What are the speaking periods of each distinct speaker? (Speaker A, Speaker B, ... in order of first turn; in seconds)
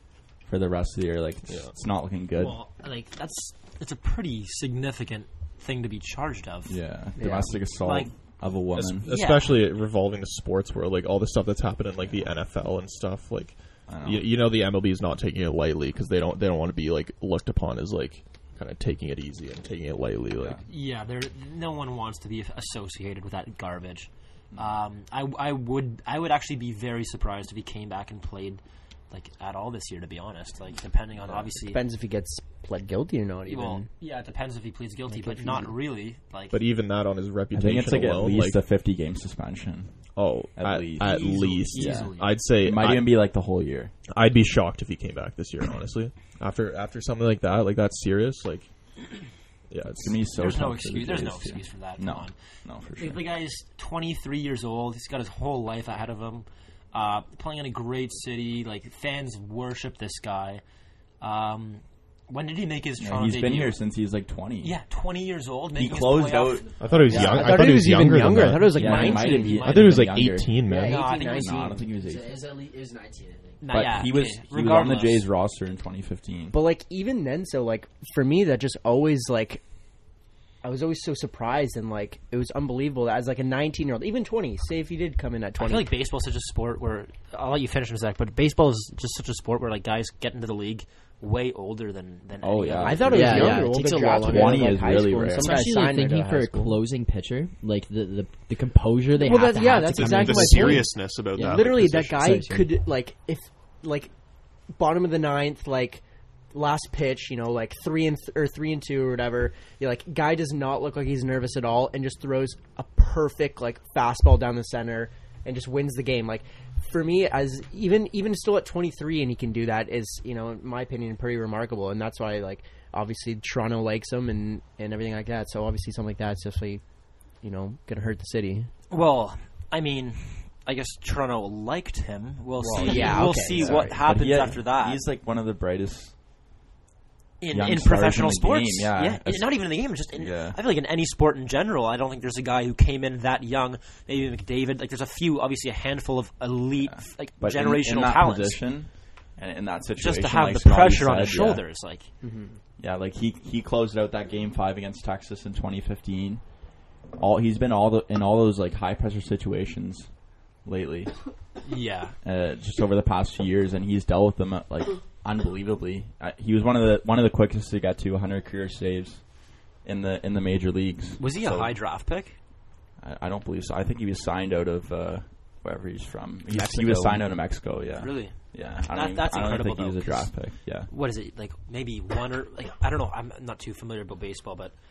Speaker A: 0.4-2.6, 6.7-9.1, 12.0-12.3, 13.9-14.3, 20.4-20.6, 37.5-43.9, 49.9-53.2, 63.0-64.8, 65.8-67.5, 68.7-70.6, 71.2-72.3, 73.7-76.6, 92.4-95.7, 132.9-136.2, 137.5-140.6, 146.8-151.7, 152.8-156.5, 157.1-161.4, 162.2-171.7, 173.0-180.9
Speaker B: 1.5-1.7, 8.8-20.6, 36.5-38.6, 40.1-43.1, 44.1-48.7, 49.7-50.1, 66.8-71.0, 99.9-102.2, 132.7-133.0
Speaker C: 2.4-6.8, 7.8-8.4, 9.0-9.6, 20.7-31.8, 33.5-36.6, 41.0-42.4, 50.4-52.4, 52.9-60.6, 61.2-63.8, 64.6-66.7, 68.9-70.0, 70.9-71.6, 73.6-75.3, 85.6-93.1, 128.9-135.0, 137.4-148.6, 150.0-152.1, 161.7-162.2, 171.2-172.4, 178.0-184.7
Speaker D: 7.2-7.6, 31.7-33.9, 35.1-35.8, 67.2-70.0, 70.7-71.3, 76.5-79.6, 80.6-85.9, 92.8-96.8, 99.2-104.1, 104.7-126.8, 127.4-128.7, 132.7-134.0, 152.2-152.6
Speaker E: 67.1-67.4, 70.7-73.6, 93.1-100.9, 102.2-102.7, 132.9-133.7, 176.5-177.2